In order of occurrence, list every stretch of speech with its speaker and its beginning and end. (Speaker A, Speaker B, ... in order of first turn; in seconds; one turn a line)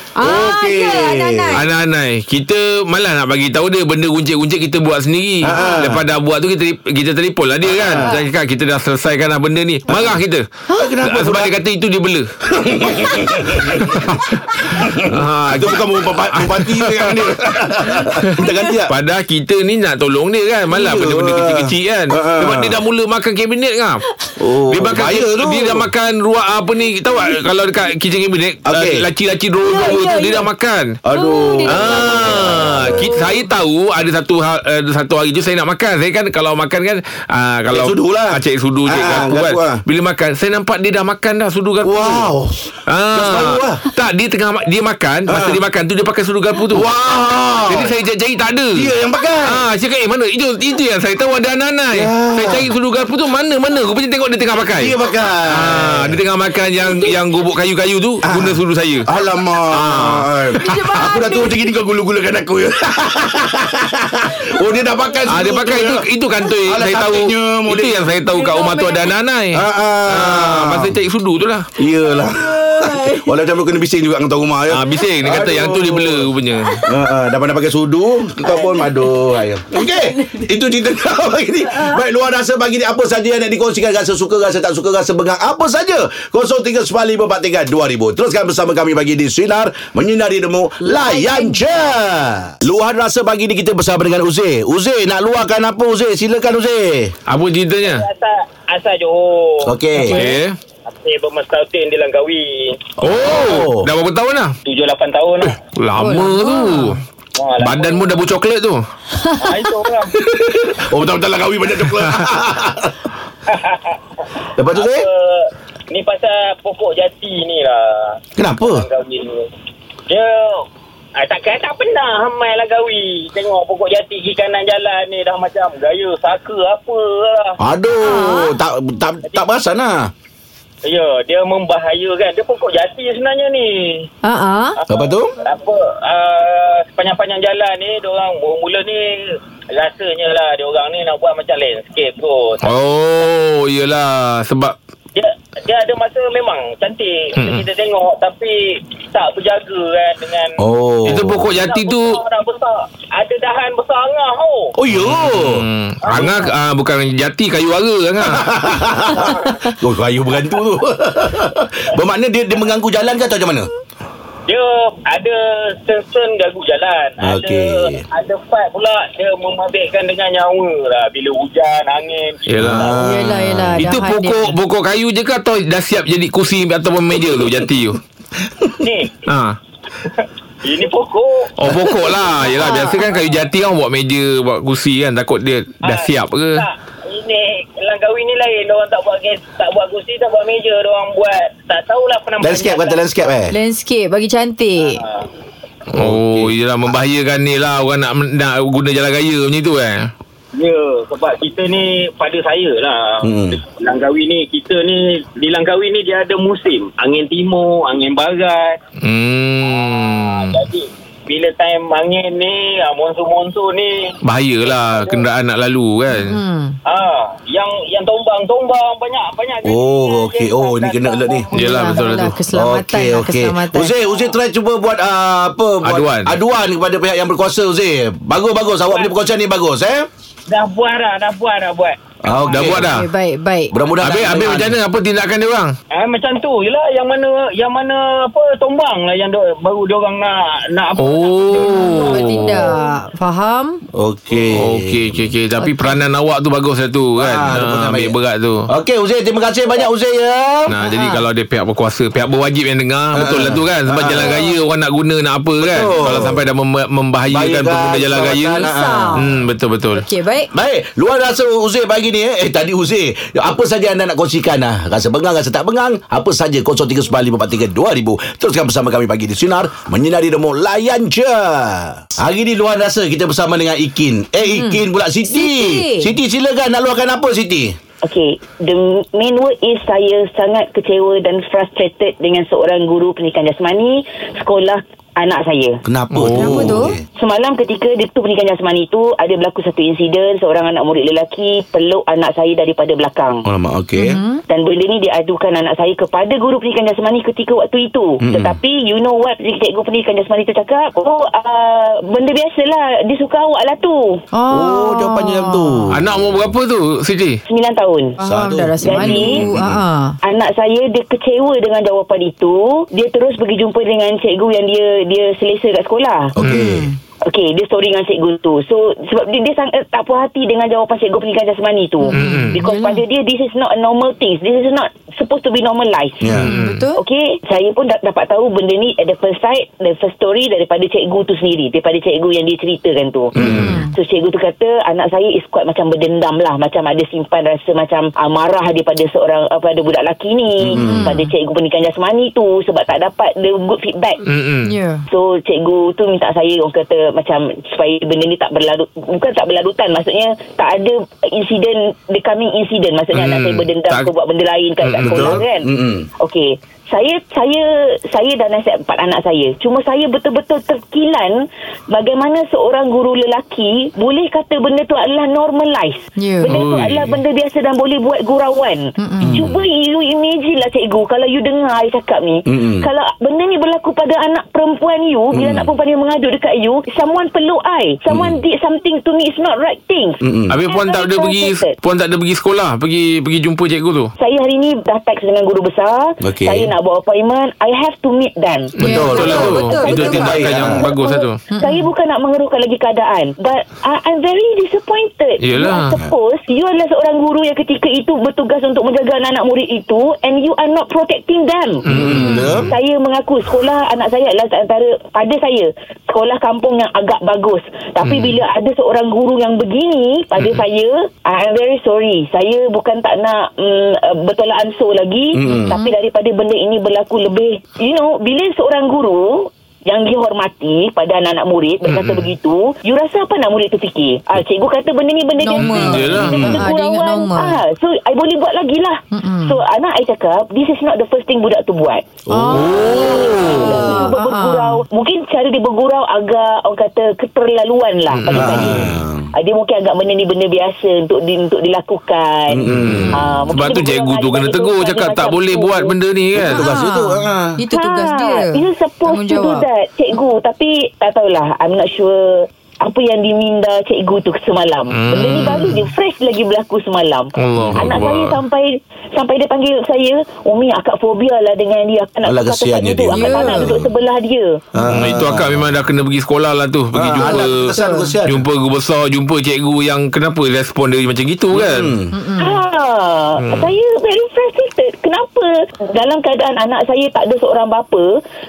Speaker A: 0.1-1.6
Speaker B: 0.2-1.6
Speaker C: 1.6-10.5
Speaker B: 5.4-6.0
Speaker B: 7.7-8.2
Speaker B: 9.9-10.2
Speaker B: 10.7-11.6
Speaker C: 11.0-12.3
Speaker B: 12.5-18.9
Speaker C: 13.0-17.2
Speaker C: 18.0-24.0
Speaker B: 20.7-22.8
Speaker B: 24.4-25.9
Speaker C: 24.7-31.0
Speaker B: 28.7-29.1
Speaker A: 29.6-30.5
Speaker B: 31.1-33.2
Speaker A: 31.1-33.5
Speaker C: 31.7-42.3
Speaker B: 37.7-39.8
Speaker B: 41.8-43.8
Speaker C: 42.9-46.9
Speaker B: 45.3-45.6
Speaker B: 46.7-47.9
Speaker C: 47.7-48.9
Speaker B: 48.7-49.6
Speaker C: 49.5-54.9
Speaker B: 51.9-52.7
Speaker B: 54.8-56.2
Speaker C: 55.5-59.1
Speaker B: 58.3-66.0
Speaker C: 59.7-60.9
Speaker A: 60.6-61.6
Speaker A: 64.4-64.7
Speaker C: 65.3-71.7
Speaker B: 66.7-68.1
Speaker A: 68.2-69.1
Speaker B: 69.5-71.0
Speaker B: 71.8-76.3
Speaker A: 72.1-73.3
Speaker C: 74.7-76.9
Speaker B: 76.8-97.1
Speaker A: 78.5-79.0
Speaker A: 79.7-80.4
Speaker A: 81.7-82.0
Speaker A: 90.9-91.7
Speaker C: 97.3-98.1
Speaker D: 97.8-102.8
Speaker B: 99.6-100.2
Speaker C: 100.0-100.6
Speaker C: 103.0-104.5
Speaker B: 103.1-103.9
Speaker D: 104.7-105.6
Speaker C: 105.5-107.0
Speaker A: 106.0-107.0
Speaker D: 107.4-108.2
Speaker C: 107.6-108.8
Speaker A: 109.1-109.7
Speaker D: 109.4-110.2
Speaker B: 110.1-113.1
Speaker D: 113.5-119.5
Speaker B: 114.6-115.1
Speaker B: 118.4-118.9
Speaker D: 120.1-127.6
Speaker B: 127.6-130.1
Speaker A: 128.0-128.5
Speaker D: 130.8-134.1
Speaker A: 134.2-134.8
Speaker D: 134.8-142.6
Speaker B: 134.9-135.3
Speaker C: 142.6-144.8
Speaker D: 145.1-150.6
Speaker C: 147.3-147.7
Speaker B: 150.6-151.6
Speaker C: 151.1-152.2
Speaker D: 151.6-154.7
Speaker B: 154.8-155.7
Speaker C: 154.9-158.5
Speaker D: 156.0-156.4
Speaker B: 158.2-163.7
Speaker D: 159.2-159.7
Speaker D: 164.5-172.9
Speaker B: 167.2-168.0
Speaker C: 172.5-178.0
Speaker B: 172.6-173.8
Speaker A: 172.9-174.5
Speaker B: 178.5-178.7
Speaker D: 178.8-179.3
Speaker C: 179.2-179.6
Speaker D: 180.0-181.5
Speaker C: 181.6-186.7
Speaker B: 181.7-182.1
Speaker A: 182.4-183.0
Speaker D: 185.8-193.1
Speaker B: 192.4-193.6
Speaker A: 193.5-195.0
Speaker D: 194.8-195.3
Speaker C: 195.9-200.1
Speaker B: 195.9-196.5
Speaker D: 200.5-208.8
Speaker B: 203.2-203.6
Speaker C: 209.0-210.7
Speaker D: 209.7-215.2
Speaker C: 214.2-216.4
Speaker A: 216.1-216.8
Speaker D: 216.9-222.2
Speaker B: 219.6-221.5
Speaker C: 221.5-222.4
Speaker A: 221.5-223.9
Speaker B: 222.5-230.1
Speaker C: 225.8-226.3
Speaker D: 228.9-229.2
Speaker D: 230.5-232.0
Speaker B: 232.2-232.9
Speaker C: 232.5-233.1
Speaker A: 232.8-233.7
Speaker B: 233.7-234.8
Speaker C: 234.0-235.8
Speaker D: 235.9-242.8
Speaker C: 241.0-242.7
Speaker A: 241.6-243.8
Speaker B: 243.9-245.0
Speaker C: 244.5-248.7
Speaker A: 245.6-245.9
Speaker B: 247.2-248.2
Speaker B: 248.7-250.7
Speaker C: 250.7-260.0
Speaker A: 250.8-251.2
Speaker B: 253.1-254.4
Speaker A: 254.2-254.5
Speaker B: 255.6-256.4
Speaker B: 257.3-259.3
Speaker A: 258.7-259.2
Speaker A: 259.9-260.5
Speaker B: 260.5-277.8
Speaker A: 274.5-276.1
Speaker E: 278.0-285.8
Speaker B: 285.9-287.0
Speaker C: 286.1-286.8
Speaker A: 286.4-286.9
Speaker E: 287.1-293.5
Speaker B: 293.5-294.2
Speaker A: 294.0-294.4
Speaker E: 294.5-304.2
Speaker B: 298.2-298.6
Speaker A: 304.3-305.9
Speaker B: 304.5-306.4
Speaker C: 305.9-307.4
Speaker E: 307.5-308.2
Speaker A: 308.2-310.2
Speaker B: 308.2-309.8
Speaker E: 308.8-309.5
Speaker E: 310.2-316.3
Speaker B: 316.4-316.9
Speaker A: 316.4-317.0
Speaker E: 317.3-326.2
Speaker A: 322.1-323.0
Speaker C: 322.1-322.6
Speaker B: 326.2-326.6
Speaker C: 326.4-326.8
Speaker A: 326.4-327.0
Speaker E: 326.9-344.2
Speaker B: 333.4-333.8
Speaker A: 333.4-333.9
Speaker B: 340.6-341.1
Speaker A: 340.8-341.3
Speaker C: 344.2-344.7
Speaker A: 344.6-345.1
Speaker E: 345.1-361.4
Speaker C: 353.1-354.1
Speaker C: 354.8-355.4
Speaker B: 355.0-356.1
Speaker E: 361.9-381.8
Speaker A: 366.2-366.5
Speaker C: 366.5-367.2
Speaker A: 369.0-369.4
Speaker B: 369.2-369.6
Speaker B: 372.5-372.9
Speaker B: 375.3-375.7
Speaker B: 378.1-378.4
Speaker B: 380.2-380.5
Speaker C: 380.5-384.1
Speaker E: 384.2-401.9
Speaker B: 386.2-386.7
Speaker C: 388.8-391.4
Speaker B: 388.8-390.9
Speaker A: 388.8-390.3
Speaker A: 391.5-391.9
Speaker C: 395.4-396.0
Speaker C: 401.9-402.7
Speaker B: 401.9-402.7
Speaker E: 402.6-432.0
Speaker C: 408.1-408.4
Speaker B: 415.3-415.7
Speaker A: 415.5-415.9
Speaker C: 421.9-422.3
Speaker A: 425.4-427.6
Speaker C: 425.6-426.4
Speaker B: 426.0-426.7
Speaker A: 429.1-429.6
Speaker B: 432.3-434.0
Speaker A: 432.3-434.8
Speaker E: 432.6-445.9
Speaker C: 438.1-438.9
Speaker B: 438.3-439.3
Speaker B: 442.5-443.2
Speaker C: 442.7-446.7
Speaker B: 446.4-447.5
Speaker A: 446.5-449.6
Speaker E: 447.7-464.6
Speaker C: 454.9-455.8
Speaker A: 455.2-455.6
Speaker C: 457.4-458.3
Speaker B: 457.6-458.0
Speaker B: 462.2-463.9
Speaker A: 463.1-463.8
Speaker B: 464.8-465.7
Speaker C: 464.9-467.7
Speaker B: 466.9-468.4
Speaker A: 467.2-468.1
Speaker C: 468.2-471.9
Speaker B: 471.5-472.2
Speaker A: 472.1-472.6
Speaker E: 472.4-478.1
Speaker C: 473.4-473.7